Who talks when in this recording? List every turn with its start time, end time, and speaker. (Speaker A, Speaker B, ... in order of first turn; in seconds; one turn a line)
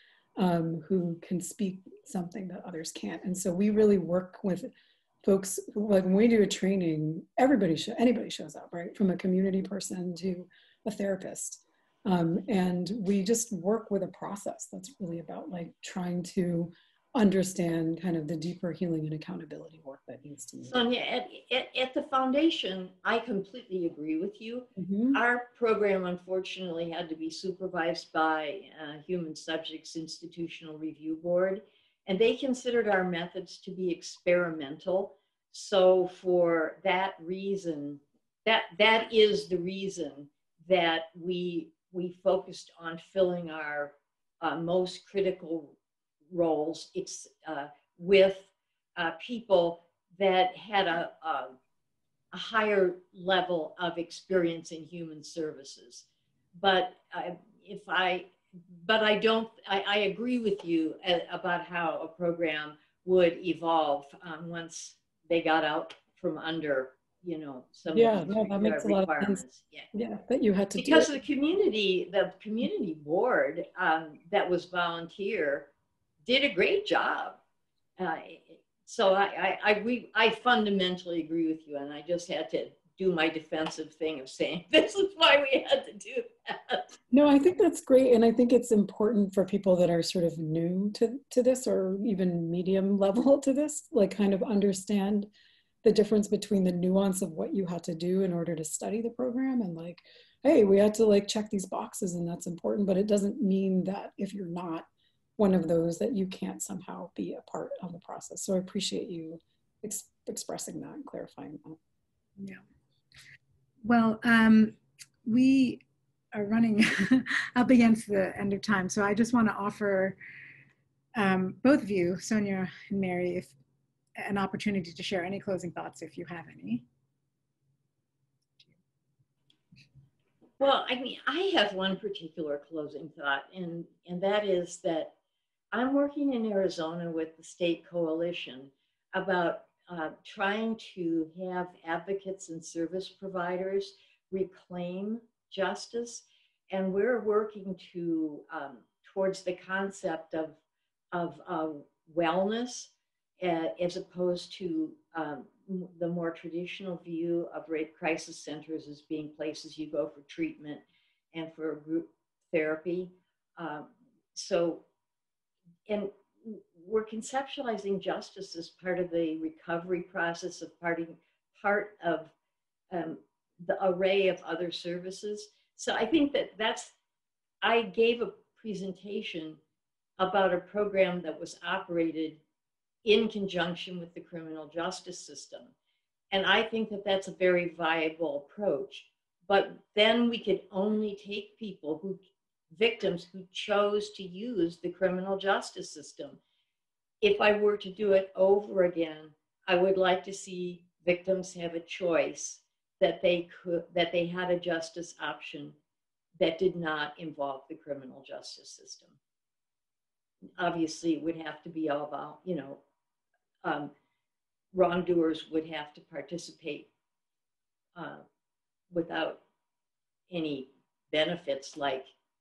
Speaker A: 0.4-4.7
Speaker A: 5.2-20.8
Speaker B: 20.6-45.8
Speaker A: 24.8-25.1
Speaker B: 46.3-51.5
Speaker B: 52.3-69.9
Speaker A: 67.9-69.4
Speaker A: 69.9-71.1
Speaker B: 70.8-75.7
Speaker B: 76.2-77.4
Speaker B: 78.0-86.8
Speaker A: 87.1-95.3
Speaker A: 95.8-111.8
Speaker C: 112.4-112.6
Speaker C: 113.8-120.2
Speaker C: 121.2-123.5
Speaker C: 124.2-126.8
Speaker B: 130.6-135.1
Speaker B: 135.7-150.6
Speaker B: 151.1-164.8
Speaker B: 165.9-172.3
Speaker B: 172.9-176.9
Speaker B: 177.6-179.6
Speaker B: 180.2-182.4
Speaker B: 183.0-185.7
Speaker B: 186.3-196.4
Speaker B: 197.2-205.8
Speaker B: 206.4-209.2
Speaker B: 210.6-212.8
Speaker B: 213.6-213.9
Speaker B: 214.7-216.9
Speaker B: 217.9-218.2
Speaker B: 218.9-219.4
Speaker B: 220.3-222.1